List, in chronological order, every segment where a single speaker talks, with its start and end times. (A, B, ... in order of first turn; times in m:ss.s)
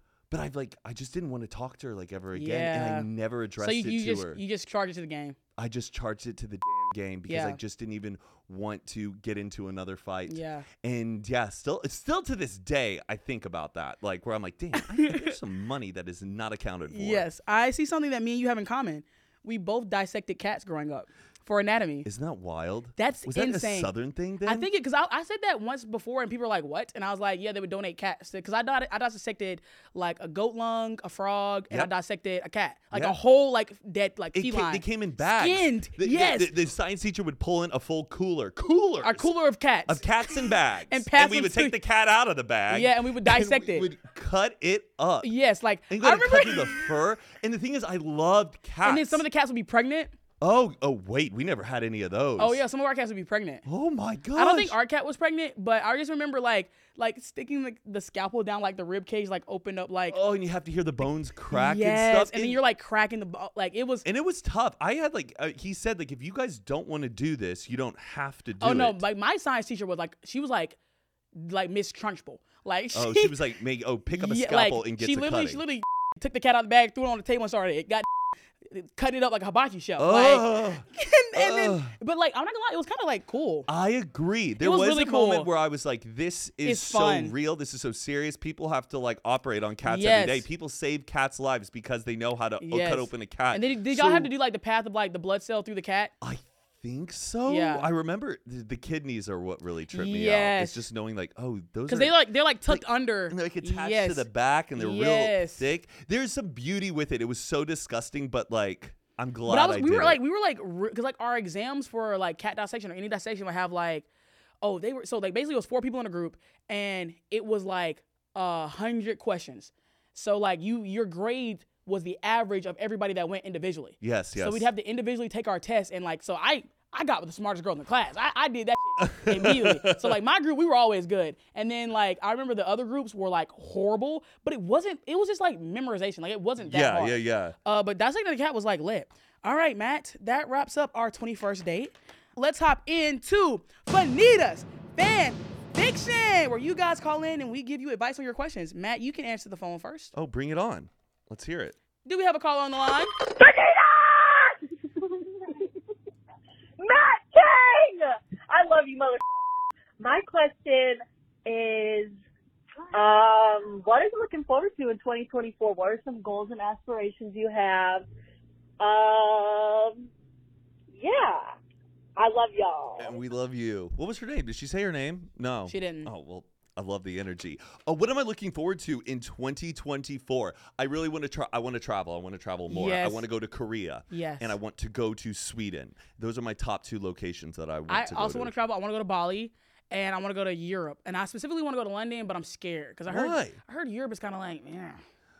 0:00.3-0:04.4 A
0:02.3-0:03.1 B
0:03.6-0:05.4 B
0:05.6-0:17.2 A
0:07.3-0:07.6 B
0:10.3-0:10.6 B
0:14.8-0:15.3 B
0:16.9-0:22.1 B
0:22.0-0:24.7 A
0:23.0-0:23.9 B
0:24.4-0:36.5 B
0:34.3-0:39.3 A
0:39.0-0:41.8 B
0:39.9-0:45.3 A
0:42.7-0:43.9 B
0:45.2-0:46.8 B
0:45.9-0:49.2 A
0:48.8-0:50.1 B
0:50.4-0:52.6 A
0:52.4-0:53.6 B
0:53.6-0:54.8 A
0:54.3-1:00.2 B
1:00.1-1:02.6 A
1:01.5-1:04.0 B
1:04.0-1:09.0 A
1:08.6-1:10.8 B
1:11.4-1:13.4 B
1:12.9-1:15.6 A
1:14.1-1:18.1 B
1:18.6-1:23.7 B
1:20.0-1:21.9 A
1:23.7-1:34.3 A
1:24.6-1:25.5 B
1:26.6-1:27.3 B
1:29.8-1:30.4 B
1:32.6-1:36.1 B
1:36.2-1:42.1 A
1:37.5-1:37.9 B
1:39.9-1:40.8 B
1:41.9-1:45.6 B
1:42.7-1:50.2 A
1:49.4-1:54.1 B
1:54.6-2:30.1 B
2:04.0-2:04.7 A
2:09.0-2:10.2 A
2:16.6-2:17.5 A
2:30.1-2:31.8 A
2:32.0-2:33.1 B
2:33.2-2:35.7 C
2:36.8-2:39.3 C
2:40.0-2:42.1 C
2:42.9-2:48.0 C
2:48.8-2:50.1 C
2:50.9-2:51.5 C
2:52.2-2:53.2 C
2:53.0-3:08.5 A
2:55.7-2:56.1 B
3:02.7-3:03.2 B
3:04.1-3:04.6 B
3:07.9-3:15.0 B
3:13.1-3:13.6 A